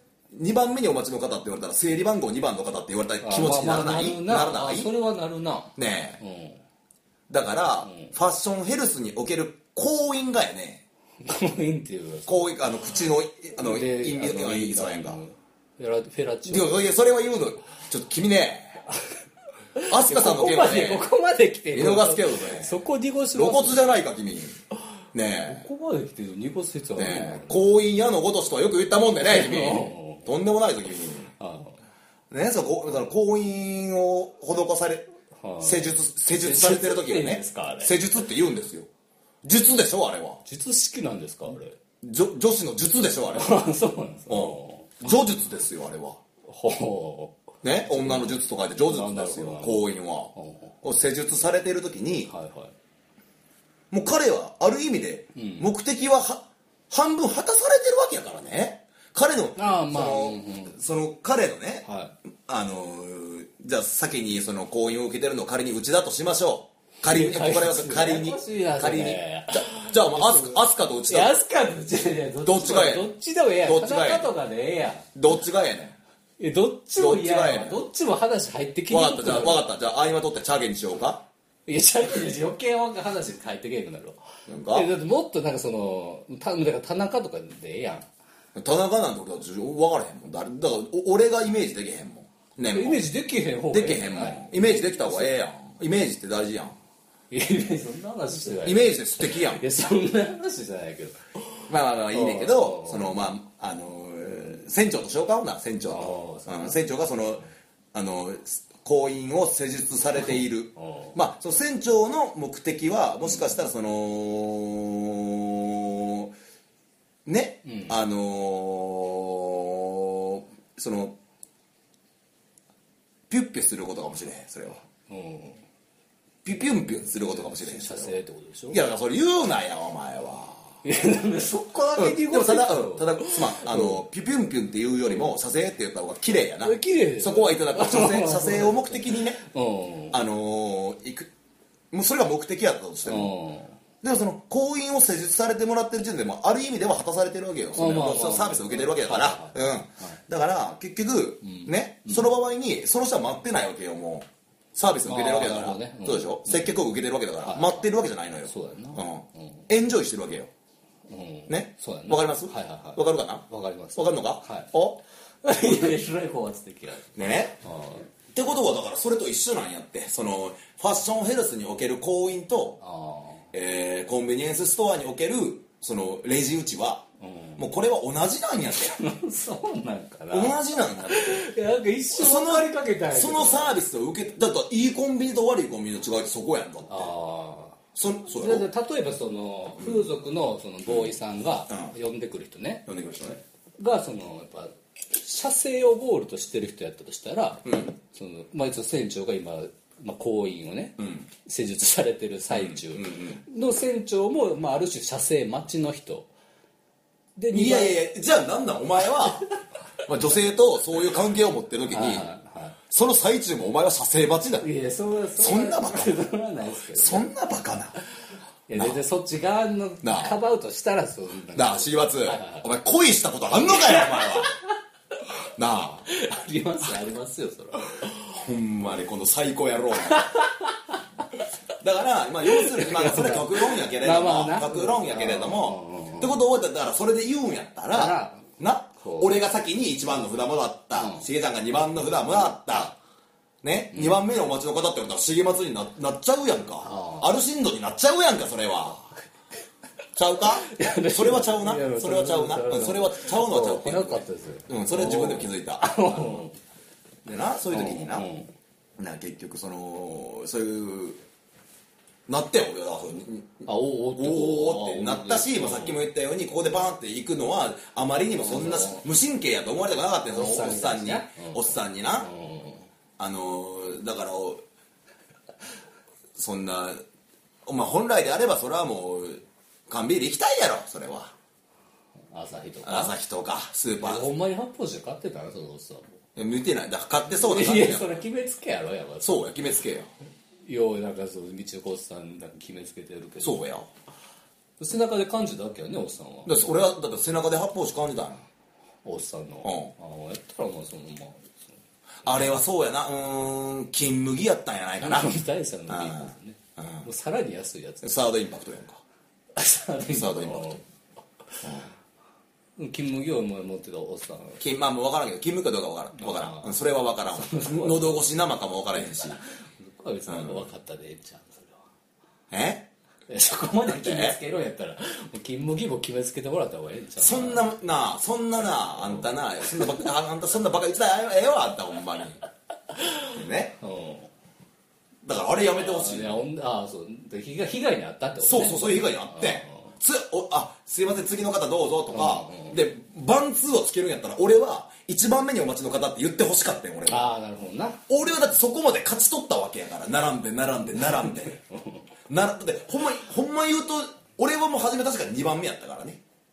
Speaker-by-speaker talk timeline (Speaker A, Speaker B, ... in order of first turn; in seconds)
Speaker A: 0.3-4.9, 5.8-6.2, 7.3-10.8, 12.3-15.2, 16.5-18.8, 19.9-21.1, 21.7-22.8, 23.3-24.6, 25.1-25.7, 27.0-31.3, 32.3-35.1, 35.6-38.9, 39.4-40.4, 42.0-43.6, 44.3-46.2, 47.6-52.3, 53.9-61.9, 62.5-71.4, 72.4-74.3, 75.2-76.0, 77.0-77.8, 78.9-81.3, 84.5-84.9, 88.5-93.1, 93.7-96.8, 98.6-99.6, 101.7-116.3, 117.3-121.2, 123.3-124.8, 126.4-128.2, 128.7-130.8, 131.9-139.4, 140.1-141.3, 141.9-143.3, 144.0-160.5, 161.5-165.0, 167.2-167.6, 168.3-172.8, 173.5-177.1, 177.6-179.0, 180.3-181.5, 182.1-187.1, 187.9-188.7, 189.8-190.1, 190.9-191.1, 191.7-191.9, 192.9-193.4, 197.7-197.9, 201.0-201.3, 202.5-203.4, 207.5-209.5, 210.0-212.3, 212.9-214.7, 215.4-216.2, 216.9-218.0, 218.7-219.0, 220.0-220.4, 221.6-224.6, 225.6-226.1, 228.2-230.3, 231.8-242.9, 243.6-249.1, 250.2-256.4, 257.2-258.3, 259.0-261.2, 262.3-272.3, 273.2-274.6, 276.4-277.0, 277.7-281.3, 282.8-284.3, 286.4-288.2, 289.2-290.1, 293.4-293.9, 296.5-298.4, 299.6-299.9, 302.2-307.1, 308.0-309.0, 310.1-310.8, 311.6-311.9, 314.6-319.4, 320.3-320.7, 322.5-322.9, 323.9-324.4, 327.2-332.4, 333.3-333.8, 335.2-336.4, 338.4-347.3, 348.1-351.6, 352.3-356.2
Speaker B: 3.2-6.6, 7.9-8.1, 11.2-12.4, 13.6-16.8, 19.8-24.0, 25.4-27.6, 29.2-30.3, 31.4-31.8, 35.4-38.0, 40.5-41.8, 43.3-45.1, 46.5-47.4, 48.0-50.8, 52.3-52.7, 55.4-55.7, 59.6-60.8, 61.9-62.1, 67.0-75.1, 76.4-79.7, 81.7-88.1, 92.7-95.4, 97.3-103.2, 105.9-106.8, 110.8-111.2, 117.7-118.0, 125.1-125.6, 127.2-128.8, 130.8-134.0, 136.6-140.2, 143.1-143.8, 147.8-150.2, 151.4-152.3, 155.1-156.7, 157.4-157.8, 158.4-159.7, 161.1-164.7, 165.4-168.1, 172.8-173.5, 177.2-177.7, 178.7-183.8, 186.9-187.8, 188.3-192.9, 193.8-206.3, 207.4-208.0, 211.9-212.8, 214.6-217.3, 218.7-222.7, 223.8-224.6, 226.1-228.1, 230.1-231.0, 232.5-236.4, 237.9-239.3, 240.9-241.3, 246.8-247.3, 250.6-256.6, 257.7-258.5, 263.6-266.0, 268.3-269.1, 270.3-272.9, 282.3-283.2, 284.0-286.2, 287.3-289.6, 290.6-293.6, 294.8-296.6, 299.0-301.8, 305.0-308.2, 309.6-310.8, 312.8-314.6, 316.2-316.7, 317.3-318.2, 319.0-321.8, 323.3-327.7, 329.0-329.9, 332.9-334.3, 335.7-339.9, 342.1-342.8, 347.1-348.0, 351.0-352.0